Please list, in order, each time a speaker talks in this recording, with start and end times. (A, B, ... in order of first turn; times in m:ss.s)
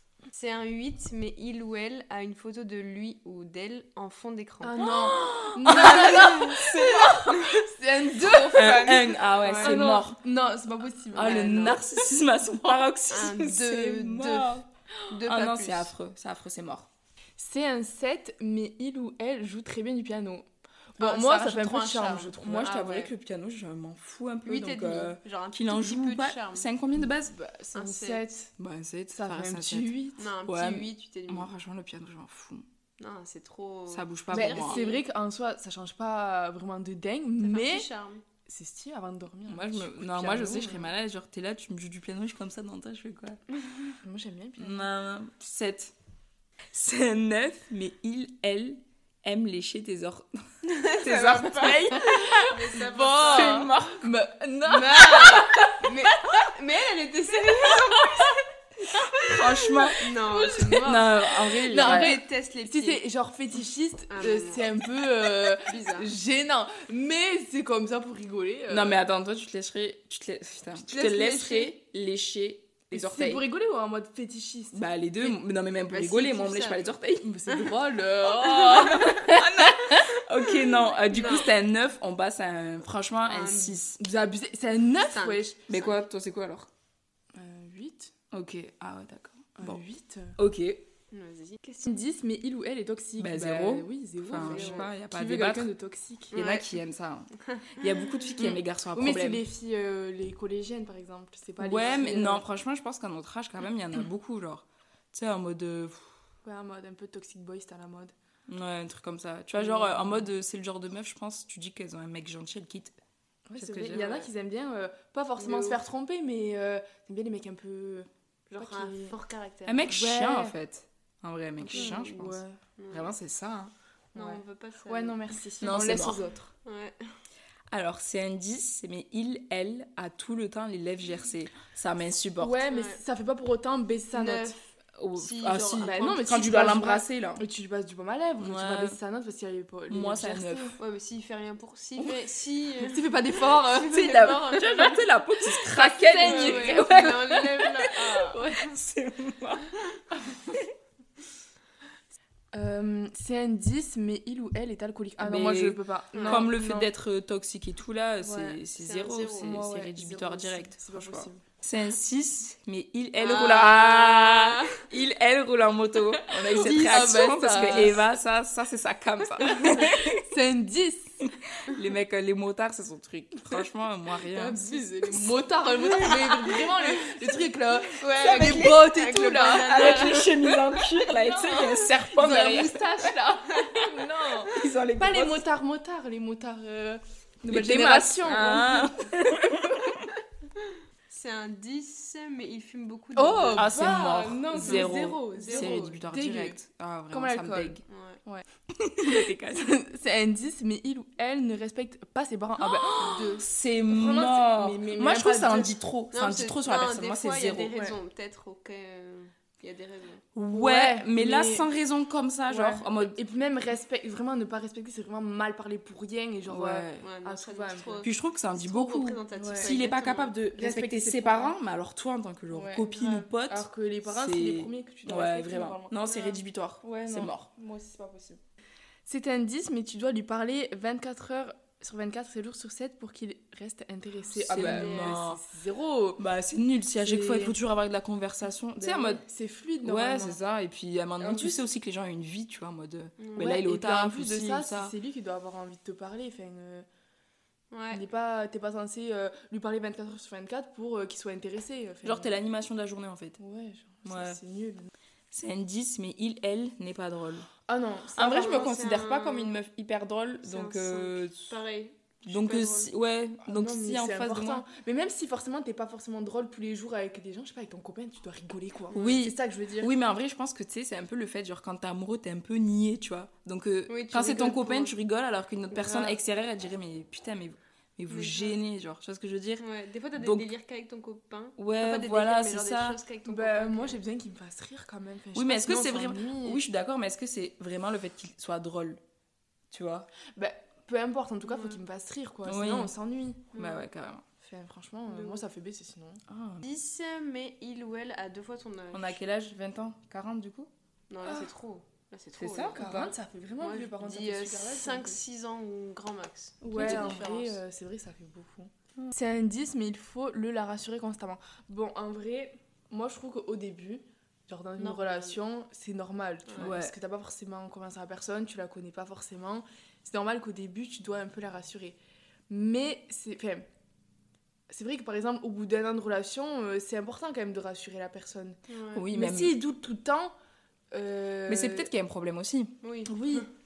0:00.3-0:04.9 A
0:04.6-0:12.0 B
0:04.8-0:07.5 C
0:05.6-0:06.6 A
0:08.1-0:10.2 C
0:09.3-0:09.8 A
0:11.1-0:11.8 A
0:11.1-0:14.6 C
0:13.1-0:15.9 A
0:15.2-0:16.9 C
0:17.4-0:20.4 B
0:21.0-0:22.7 B
0:21.0-0:23.1 A
0:22.4-0:27.3 C
0:24.4-0:26.7 A
0:27.0-0:28.5 B
0:27.7-0:28.3 A
0:28.6-0:32.6 C
0:29.1-0:30.2 B
0:30.2-0:31.5 A
0:33.0-0:35.0 A
0:33.9-0:34.8 C
0:34.3-0:37.9 B
0:37.4-0:38.2 A
0:38.4-0:40.9 B
0:39.5-0:43.4 C
0:44.0-0:44.9 B
0:44.6-0:45.9 C
0:46.7-0:54.1 C
0:50.7-0:53.7 A
0:52.7-0:55.7 B
0:54.7-0:58.4 A
0:58.9-1:00.0 B
0:59.3-1:00.1 C
1:00.0-1:03.0 A
1:00.8-1:02.2 C
1:01.6-1:09.0 B
1:04.1-1:04.8 A
1:05.6-1:06.1 A
1:08.7-1:13.4 C
1:10.7-1:11.8 B
1:12.9-1:14.8 B
1:14.7-1:17.3 C
1:15.2-1:16.9 A
1:17.2-1:19.8 B
1:17.5-1:19.3 A
1:18.4-1:24.0 C
1:19.9-1:21.5 A
1:23.2-1:23.8 A
1:23.9-1:25.6 B
1:25.1-1:26.0 A
1:25.7-1:26.7 C
1:27.3-1:28.1 B
1:28.3-1:29.8 C
1:29.6-1:30.4 B
1:30.4-1:30.9 C
1:31.1-1:31.9 A
1:31.8-1:36.4 B
1:33.2-1:35.7 C
1:34.3-1:34.9 A
1:36.3-1:36.7 A
1:36.3-1:39.4 C
1:37.6-1:38.6 A
1:38.9-1:42.4 B
1:41.6-1:46.1 C
1:41.8-1:42.4 A
1:46.4-1:48.1 B
1:48.5-1:52.9 C
1:49.5-1:50.3 B
1:53.5-1:59.2 B
1:53.6-1:54.3 C
1:55.4-1:55.8 A
1:58.5-1:59.8 A
1:59.7-2:03.7 C
1:59.8-2:00.6 B
2:01.6-2:03.1 A
2:01.6-2:02.6 B
2:04.1-2:06.5 B
2:04.1-2:06.0 A
2:05.6-2:06.2 C
2:06.6-2:07.0 A
2:07.7-2:12.6 C
2:12.4-2:14.6 B
2:12.7-2:13.0 A
2:14.1-2:14.6 A
2:15.0-2:17.4 C
2:15.2-2:16.1 A
2:15.8-2:20.8 B
2:18.4-2:19.0 C
2:19.9-2:20.8 C
2:20.8-2:25.0 A
2:22.0-2:22.3 B
2:22.8-2:24.4 B
2:23.8-2:29.7 C
2:25.7-2:27.0 B
2:26.0-2:28.7 A
2:32.5-2:36.9 B
2:35.2-2:50.2 C
2:36.1-2:36.5 A
2:38.2-2:41.4 B
2:38.8-2:39.6 A
2:43.2-2:44.8 A
2:46.3-2:48.1 B
2:46.5-2:47.9 A
2:50.0-2:51.2 B
2:51.2-2:56.5 C
2:54.3-3:00.3 B
2:55.9-2:56.9 A
2:58.0-3:00.6 A
2:58.2-2:58.9 C
2:59.5-3:03.1 C
3:00.8-3:09.0 B
3:03.6-3:03.9 A
3:04.5-3:05.4 C
3:07.4-3:10.0 C
3:11.1-3:13.7 A
3:13.1-3:16.6 B
3:13.5-3:17.8 C
3:14.6-3:15.9 A
3:17.1-3:18.4 B
3:17.9-3:18.2 A
3:18.8-3:19.7 C
3:19.1-3:25.7 B
3:22.6-3:27.7 C
3:22.9-3:23.4 A
3:26.1-3:30.2 A
3:30.3-3:33.2 C
3:30.5-3:31.7 B
3:32.5-3:38.0 B
3:36.4-3:37.1 C
3:37.0-3:40.4 A
3:38.0-3:47.5 C
3:39.3-3:39.8 B
3:40.5-3:41.5 B
3:42.5-3:48.4 B
3:49.0-3:56.2 B
3:54.4-3:55.4 C
3:54.5-3:55.2 A
3:56.2-3:59.2 C
3:57.0-3:57.6 B
3:58.8-4:00.4 B
3:59.8-4:04.9 C
4:01.2-4:01.6 B
4:03.2-4:03.5 A
4:03.4-4:06.8 B
4:07.7-4:08.0 A
4:07.9-4:12.4 B
4:12.0-4:13.4 C
4:13.4-4:14.9 B
4:14.0-4:14.4 C
4:15.3-4:17.5 C
4:17.7-4:18.6 B
4:18.2-4:19.6 A
4:18.2-4:21.6 C
4:20.4-4:22.9 A
4:22.2-4:24.6 C
4:23.4-4:29.9 B
4:28.9-4:40.5 C
4:33.9-4:34.9 A
4:35.7-4:36.2 A
4:38.1-4:38.6 A
4:39.6-4:44.0 A
4:41.6-4:43.0 C
4:43.2-4:46.6 B
4:45.3-4:49.0 C
4:49.7-4:50.1 C
4:50.3-4:53.4 B
4:51.4-4:51.8 A
4:52.4-4:52.9 C
4:53.5-4:53.9 A
4:53.5-4:54.2 C
4:54.4-4:56.2 B
4:55.1-4:55.4 A
4:56.3-4:56.6 C
4:56.6-4:59.2 A
4:58.9-5:00.7 C
5:01.1-5:07.6 A
5:01.2-5:01.5 B
5:02.4-5:03.1 C
5:02.8-5:05.2 B
5:06.6-5:22.0 B
5:06.7-5:07.2 C
5:14.8-5:15.4 A
5:16.5-5:16.7 A
5:16.6-5:16.9 C
5:22.5-5:23.6 B
5:24.7-5:30.3 B
5:28.7-5:29.1 A
5:28.9-5:29.6 C
5:30.9-5:31.9 B
5:31.5-5:32.7 C
5:32.8-5:33.4 A
5:33.1-5:33.5 B